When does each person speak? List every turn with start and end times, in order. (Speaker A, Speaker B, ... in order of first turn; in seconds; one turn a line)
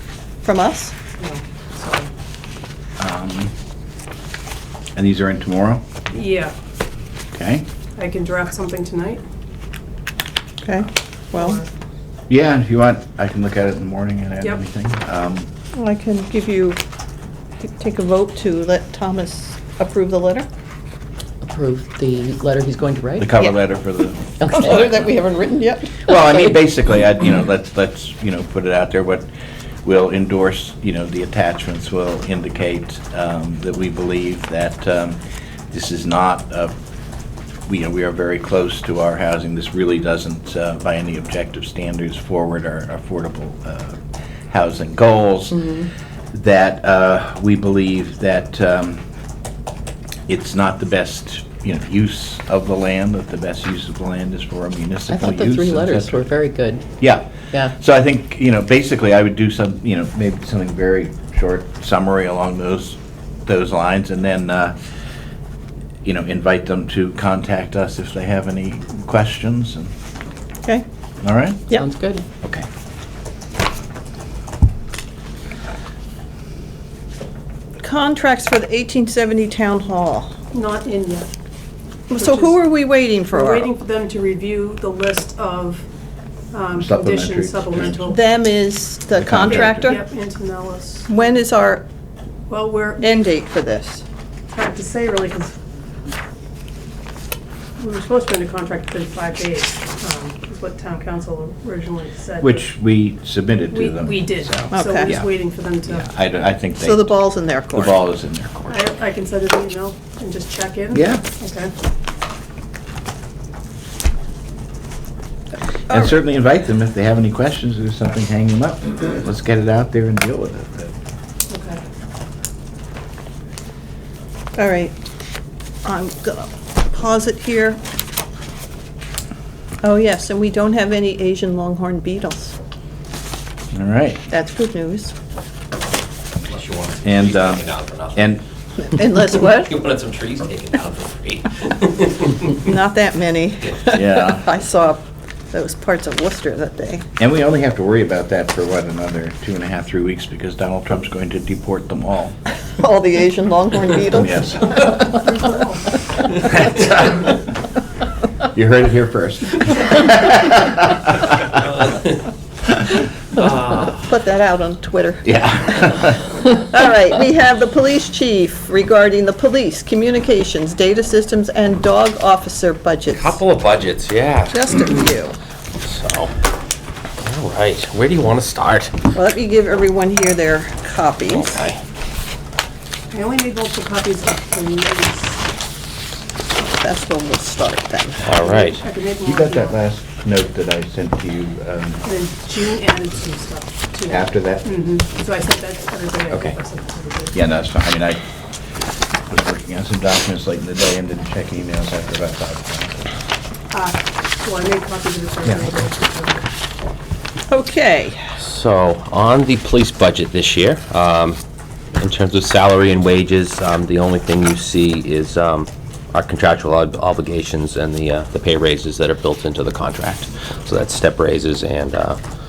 Speaker A: 0.4-0.9
Speaker B: 1.2-2.0
Speaker C: 3.0-3.5
Speaker C: 4.9-5.8
Speaker B: 6.2-6.5
Speaker C: 7.3-7.7
Speaker B: 8.0-9.2
Speaker A: 10.6-11.6
Speaker B: 11.3-11.6
Speaker C: 12.3-15.5
Speaker A: 15.7-16.8
Speaker A: 17.6-20.5
Speaker D: 21.4-23.3
Speaker C: 23.2-25.1
Speaker D: 24.4-24.7
Speaker A: 24.5-26.4
Speaker C: 26.1-29.3
Speaker C: 29.8-35.2
Speaker C: 35.7-36.7
Speaker C: 37.7-44.0
Speaker C: 44.5-49.0
Speaker C: 50.3-56.3
Speaker D: 55.1-56.9
Speaker C: 57.0-64.8
Speaker C: 66.0-69.9
Speaker C: 71.2-71.8
Speaker D: 71.7-72.2
Speaker C: 72.4-72.7
Speaker A: 77.8-80.3
Speaker B: 80.5-81.3
Speaker A: 82.1-83.7
Speaker B: 82.1-82.5
Speaker B: 83.3-85.8
Speaker B: 86.5-88.2
Speaker C: 86.7-88.1
Speaker A: 88.1-90.0
Speaker C: 89.1-90.0
Speaker B: 89.5-91.1
Speaker A: 91.1-91.8
Speaker B: 92.5-93.1
Speaker A: 93.0-94.0
Speaker B: 94.5-95.5
Speaker B: 97.8-102.6
Speaker C: 102.4-105.3
Speaker B: 103.7-106.1
Speaker A: 104.7-105.1
Speaker C: 105.8-108.8
Speaker A: 106.8-108.0
Speaker B: 108.7-111.7
Speaker C: 110.9-111.2
Speaker A: 115.9-116.2
Speaker C: 115.9-120.9
Speaker B: 121.5-121.8
Speaker A: 124.5-125.0
Speaker A: 125.8-127.8
Speaker A: 129.8-132.6
Speaker C: 133.7-134.2
Speaker A: 134.3-135.1
Speaker E: 136.4-138.3
Speaker C: 137.0-138.4
Speaker A: 138.8-139.7
Speaker E: 139.3-142.6
Speaker A: 142.6-147.1
Speaker C: 143.9-144.4
Speaker C: 147.2-152.3
Speaker A: 152.8-155.1
Speaker C: 154.1-154.9
Speaker B: 155.2-155.8
Speaker C: 156.4-157.2
Speaker C: 158.4-161.6
Speaker E: 161.8-162.2
Speaker E: 163.3-164.0
Speaker A: 164.0-173.4
Speaker C: 165.2-166.2
Speaker E: 173.1-175.0
Speaker A: 174.5-175.4
Speaker E: 175.8-176.3
Speaker E: 177.2-178.9
Speaker A: 179.1-181.6
Speaker E: 181.2-181.8
Speaker B: 183.1-185.4
Speaker A: 186.6-188.3
Speaker E: 188.2-188.8
Speaker B: 188.4-189.8
Speaker C: 189.2-192.0
Speaker B: 192.0-197.3
Speaker C: 194.1-194.6
Speaker C: 197.3-198.2
Speaker C: 199.3-203.1
Speaker B: 203.7-206.4
Speaker C: 205.4-205.8
Speaker A: 207.5-208.2
Speaker E: 208.4-211.4
Speaker E: 211.9-222.2